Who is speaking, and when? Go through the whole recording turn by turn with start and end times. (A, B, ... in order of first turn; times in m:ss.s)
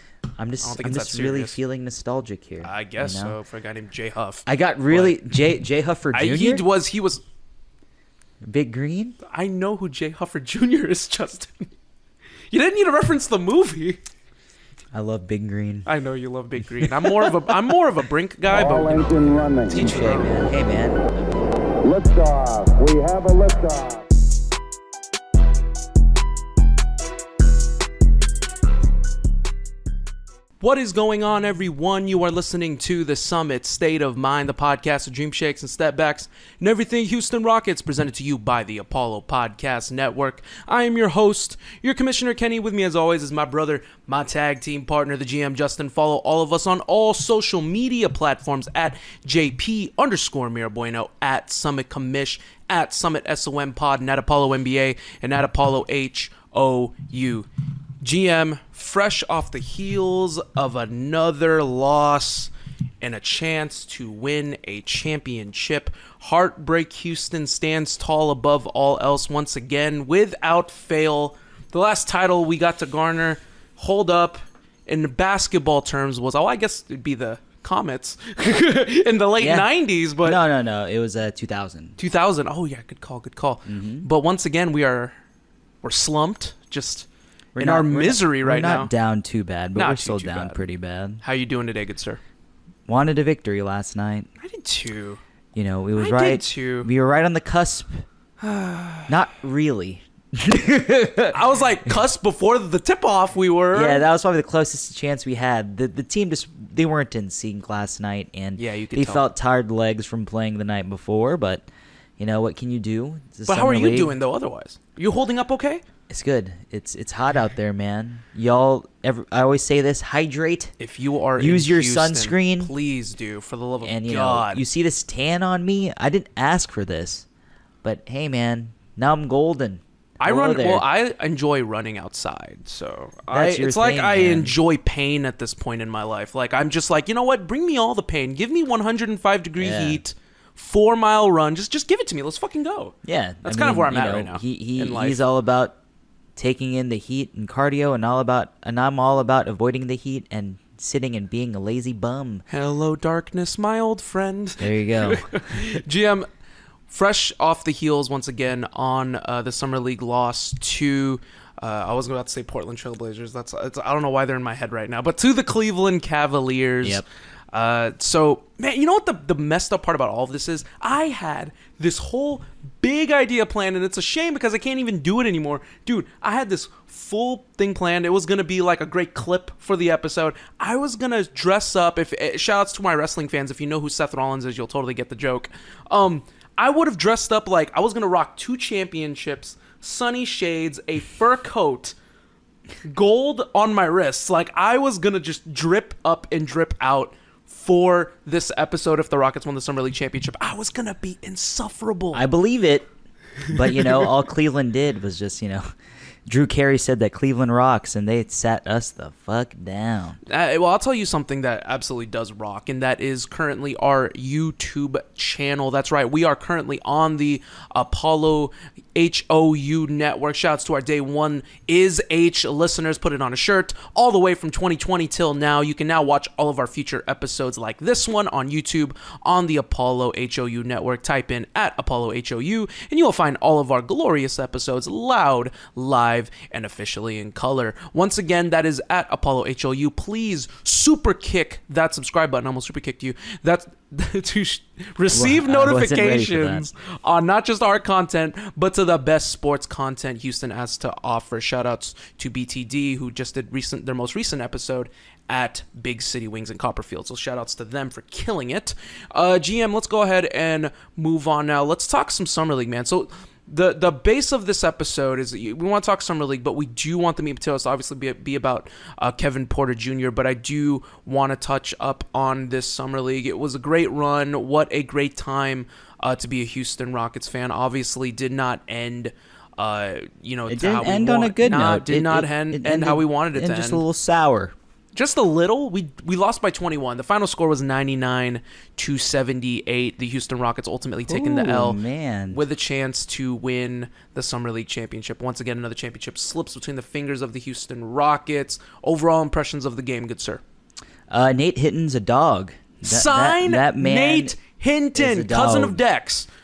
0:00.4-0:03.4 A
0:00.6-0:01.6 B
0:02.6-0:05.2 B
0:04.4-0:06.6 A
0:06.1-0:07.2 B
0:08.4-0:09.2 A
0:09.3-0:11.7 B
0:12.5-0:14.0 B
0:14.9-0:15.9 A
0:15.8-0:20.3 B
0:16.8-0:17.3 A
0:18.5-0:19.9 C
0:19.7-0:21.5 A
0:21.8-0:24.1 C
0:30.6-0:57.5 B
0:58.0-1:20.4 B
1:19.4-1:22.0 A
1:22.0-1:25.2 B
1:23.7-1:24.1 A
1:25.8-1:27.0 B
1:27.6-1:31.2 A
1:27.6-1:28.9 B
1:29.8-1:30.6 B
1:31.2-1:32.2 B
1:32.9-1:34.3 A
1:34.4-1:35.2 B
1:35.6-1:38.0 A
1:36.0-1:36.9 B
1:38.4-1:39.1 B
1:39.1-1:42.0 A
1:41.3-1:44.0 B
1:43.7-1:51.7 A
1:48.6-1:49.2 B
1:52.2-1:54.1 A
1:53.5-1:55.8 B
1:56.1-2:00.7 A
2:00.8-2:04.6 B
2:01.4-2:02.7 A
2:03.8-2:07.2 A
2:07.8-2:10.8 A
2:10.2-2:25.2 B
2:13.3-2:14.5 A
2:19.6-2:20.0 A
2:23.0-2:25.8 A
2:26.4-2:32.4 A
2:32.5-2:36.3 B
2:34.6-2:35.3 A
2:36.9-3:12.0 B
3:12.8-3:22.2 B
3:22.1-3:22.9 A
3:23.4-3:25.7 A
3:23.5-3:24.1 B
3:26.2-3:30.2 A
3:30.2-4:43.8 B
4:05.1-4:06.7 A
4:40.5-4:44.5 A
4:45.0-4:51.8 B
4:51.1-4:52.4 A
4:52.3-5:00.4 B
5:01.1-5:04.4 A
5:02.8-5:06.3 B
5:05.0-5:05.8 A